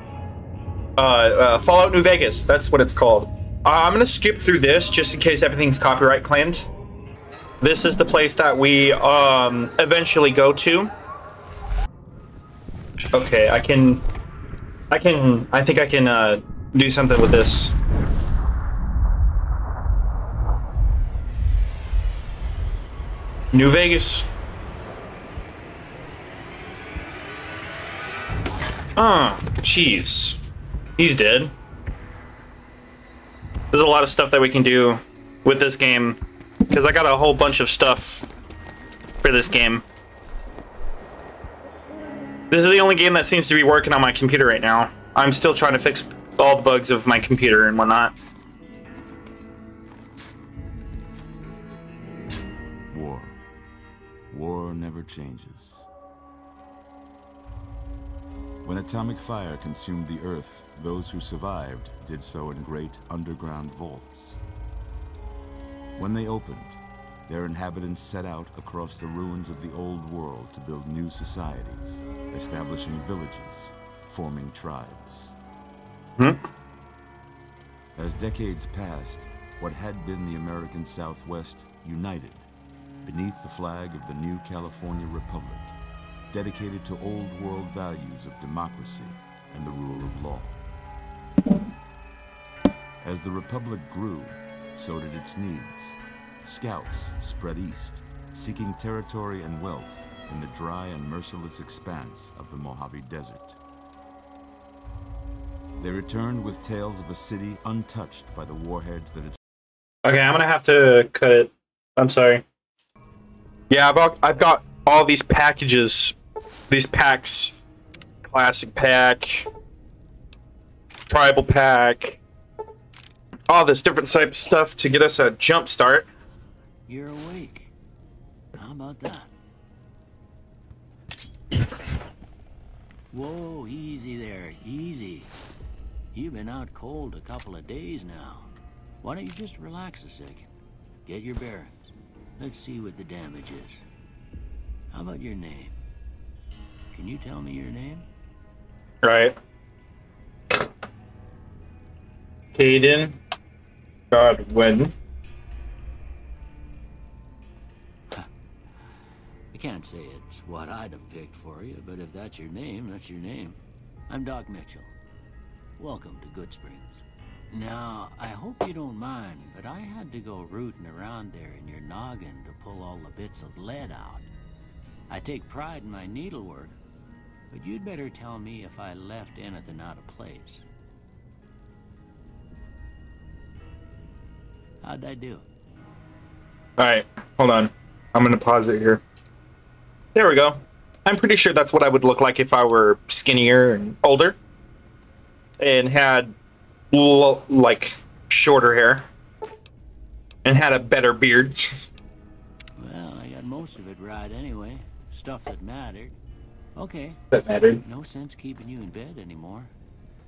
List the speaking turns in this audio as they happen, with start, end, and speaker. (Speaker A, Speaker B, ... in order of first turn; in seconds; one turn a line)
Speaker A: 1.0-6.7
Speaker A: 7.6-10.9
Speaker A: 13.1-14.0
Speaker A: 14.9-17.7
Speaker A: 23.5-24.3
Speaker A: 28.9-30.4
Speaker A: 31.0-31.5
Speaker A: 33.7-38.2
Speaker A: 39.2-39.8
Speaker A: 42.5-48.1
Speaker B: 52.9-53.4
Speaker B: 54.3-55.9
Speaker B: 58.6-64.4
Speaker B: 66.0-75.3
Speaker B: 78.0-82.5
Speaker B: 83.0-85.7
Speaker B: 86.3-90.6
Speaker B: 93.0-103.6
Speaker B: 105.8-109.4
Speaker A: 110.0-112.4
Speaker A: 113.7-116.1
Speaker A: 116.7-117.5
Speaker A: 118.2-119.5
Speaker A: 121.1-122.2
Speaker A: 123.5-126.1
Speaker C: 126.9-127.7
Speaker C: 128.5-129.3
Speaker C: 133.1-135.3
Speaker C: 136.1-138.5
Speaker C: 139.0-140.5
Speaker C: 141.0-143.8
Speaker C: 144.9-145.8
Speaker C: 146.9-148.1
Speaker A: 149.0-149.3
Speaker A: 152.5-153.2
Speaker A: 154.1-154.9
Speaker C: 159.5-164.9
Speaker C: 165.8-174.3
Speaker C: 175.1-176.8
Speaker C: 177.5-180.7
Speaker C: 184.8-185.4
Speaker A: 186.8-189.0
Speaker A: 190.1-194.4
Speaker A: 195.6-196.3
Speaker A: 196.9-199.1
Speaker A: 200.4-201.8
Speaker C: 202.8-206.2
Speaker C: 206.7-207.2
Speaker A: 207.3-207.8
Speaker C: 207.8-209.7